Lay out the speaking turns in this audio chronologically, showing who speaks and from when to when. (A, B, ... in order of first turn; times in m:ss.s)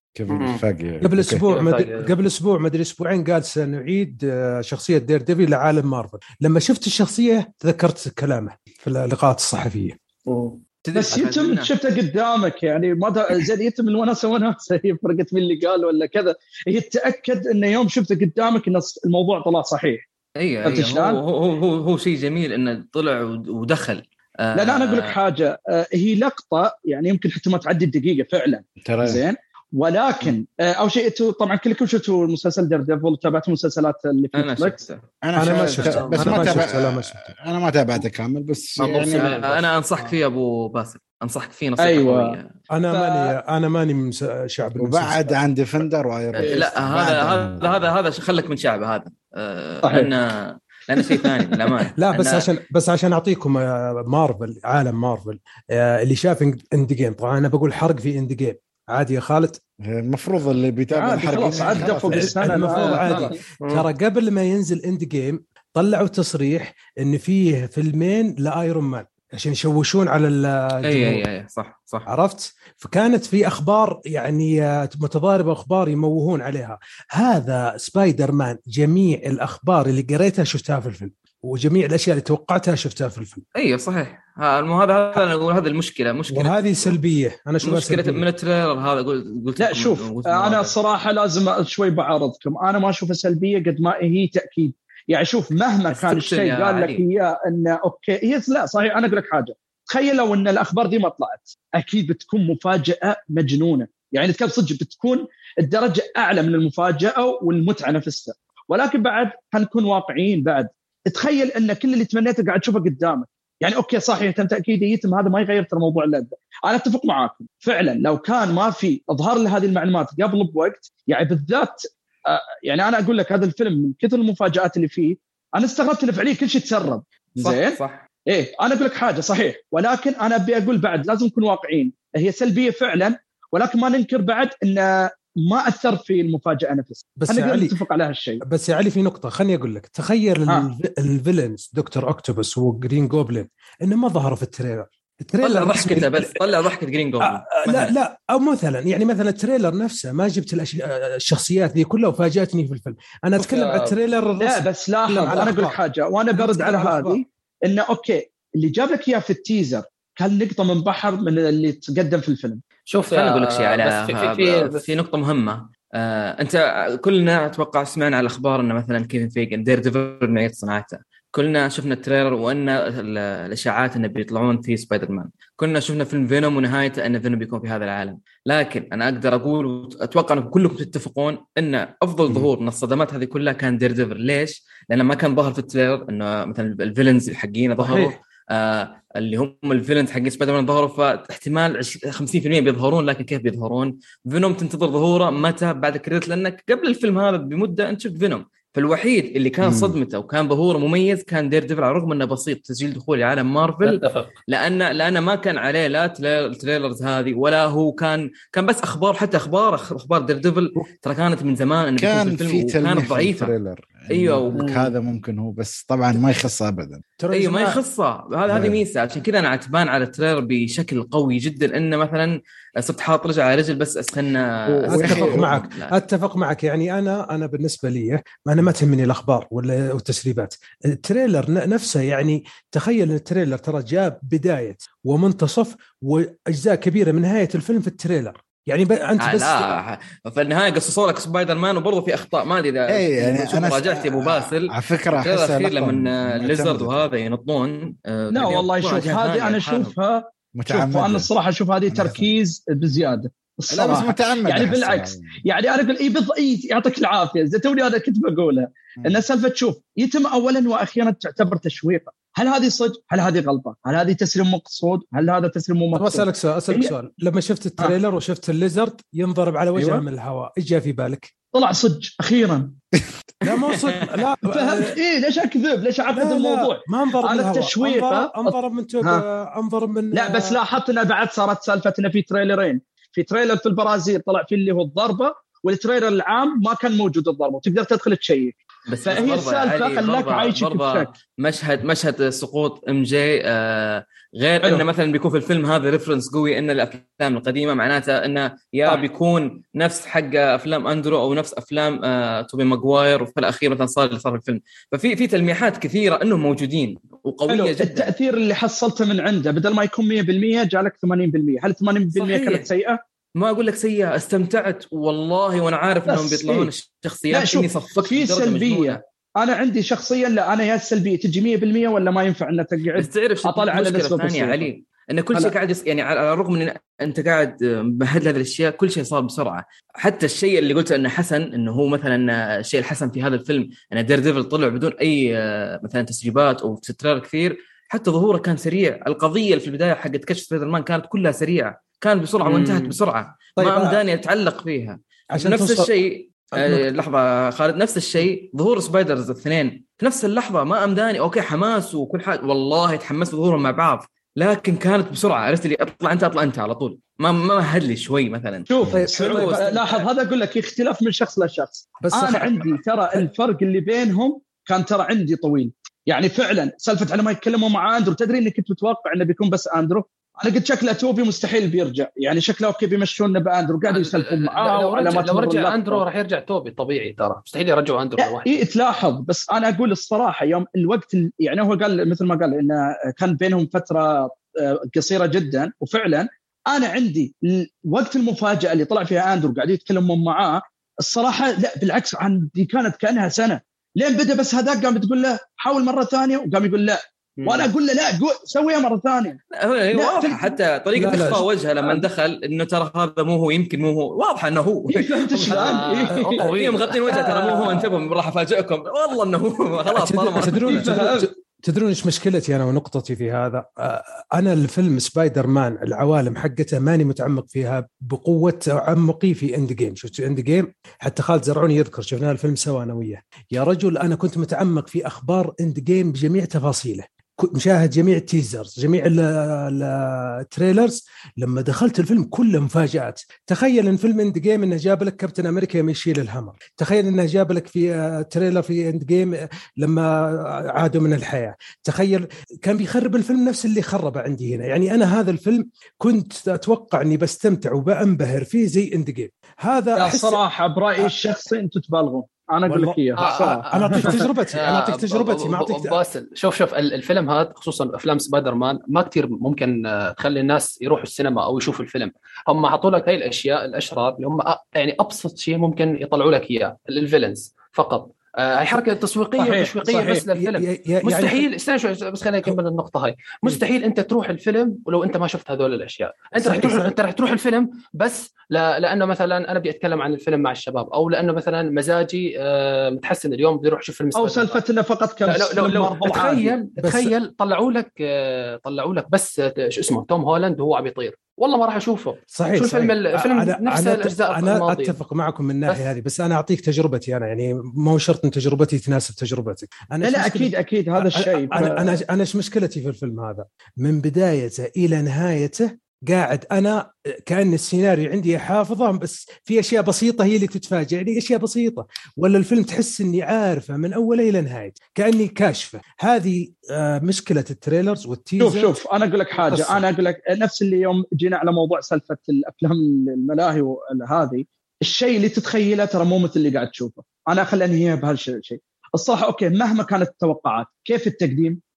0:00.2-0:01.4 A
0:00.3-0:00.6 B
0:01.0-0:10.0 C
0:01.5-0:02.1 B
0:10.3-0:10.6 B
0:10.8-0:11.7 D
0:10.9-0:20.0 E
0:20.4-0:25.2 D
0:20.6-0:21.2 E
0:24.6-0:34.8 E
0:28.8-0:29.2 A
0:34.4-0:35.0 D
0:35.2-0:39.3 A
0:35.4-0:37.3 C
0:35.7-0:36.6 B
0:38.8-0:42.5 D
0:38.8-0:40.2 B
0:41.8-0:42.4 E
0:42.7-0:45.4 C
0:42.9-0:43.4 E
0:44.8-0:47.9 A
0:46.4-0:52.5 D
0:49.8-0:50.1 E
0:51.0-0:51.3 E
0:52.0-0:59.6 C
0:59.8-1:02.6 A
1:00.9-1:03.3 E
1:02.1-1:11.2 C
1:02.6-1:03.9 B
1:10.8-1:12.1 D
1:12.1-1:23.4 C
1:23.6-1:27.0 D
1:26.3-1:28.2 C
1:27.6-1:30.7 D
1:29.6-2:07.8 E
1:35.9-1:37.0 D
2:07.4-2:08.0 D
2:08.3-2:18.4 E
2:17.2-2:17.8 C
2:18.4-2:26.4 C
2:25.4-2:28.0 D
2:27.2-2:35.8 C
2:33.4-2:34.0 B
2:34.4-2:42.6 E
2:36.3-2:37.2 C
2:42.9-2:44.9 B
2:43.1-3:33.5 D
3:07.8-3:08.2 C
3:19.6-3:20.0 A
3:23.8-3:24.4 B
3:32.0-3:37.0 A
3:34.1-3:34.9 D
3:34.6-3:34.9 B
3:37.2-3:37.8 C
3:37.3-3:46.0 D
3:38.5-3:38.8 A
3:44.7-3:45.6 A
3:44.9-3:59.6 C
3:59.2-4:09.9 D
4:02.9-4:07.1 A
4:08.3-4:26.9 E
4:10.6-4:11.3 A
4:11.9-4:12.3 A
4:13.7-4:15.4 A
4:25.9-4:31.3 C
4:29.8-4:30.0 E
4:31.5-4:32.8 E
4:33.4-4:34.2 D
4:33.4-4:35.0 C
4:34.5-4:39.2 E
4:36.1-4:40.6 C
4:40.1-4:51.1 E
4:48.9-5:08.1 D
5:07.5-5:13.0 E
5:12.1-5:12.7 D
5:13.4-5:19.0 D
5:16.1-5:16.7 E
5:17.3-5:24.7 E
5:23.0-6:00.1 D
5:42.5-5:43.0 B
5:43.6-5:44.0 C
5:45.3-5:45.9 C
5:46.5-5:47.0 C
5:58.7-6:16.0 E
5:58.9-5:59.7 C
6:02.0-6:03.2 C
6:13.9-6:18.7 B
6:18.2-6:39.4 E
6:37.4-6:37.7 B
6:39.6-6:45.8 D
6:39.9-6:40.5 E
6:41.0-6:41.4 C
6:41.8-6:42.1 E
6:44.9-6:46.4 E
6:45.5-6:47.7 B
6:46.4-6:50.9 D
6:47.1-6:47.8 E
6:49.9-7:30.4 C
6:50.5-6:51.3 E
7:30.0-7:34.2 E
7:32.7-7:33.0 C
7:33.2-8:04.6 B
7:33.7-7:36.0 C
7:49.4-7:50.2 E
7:50.4-7:51.5 C
7:56.4-7:57.0 C
8:04.2-8:06.5 E
8:05.3-8:15.0 B
8:06.8-8:07.2 C
8:12.3-8:38.8 C
8:15.7-8:15.9 B
8:20.0-8:22.0 E
8:38.4-8:51.6 E
8:39.4-8:39.8 C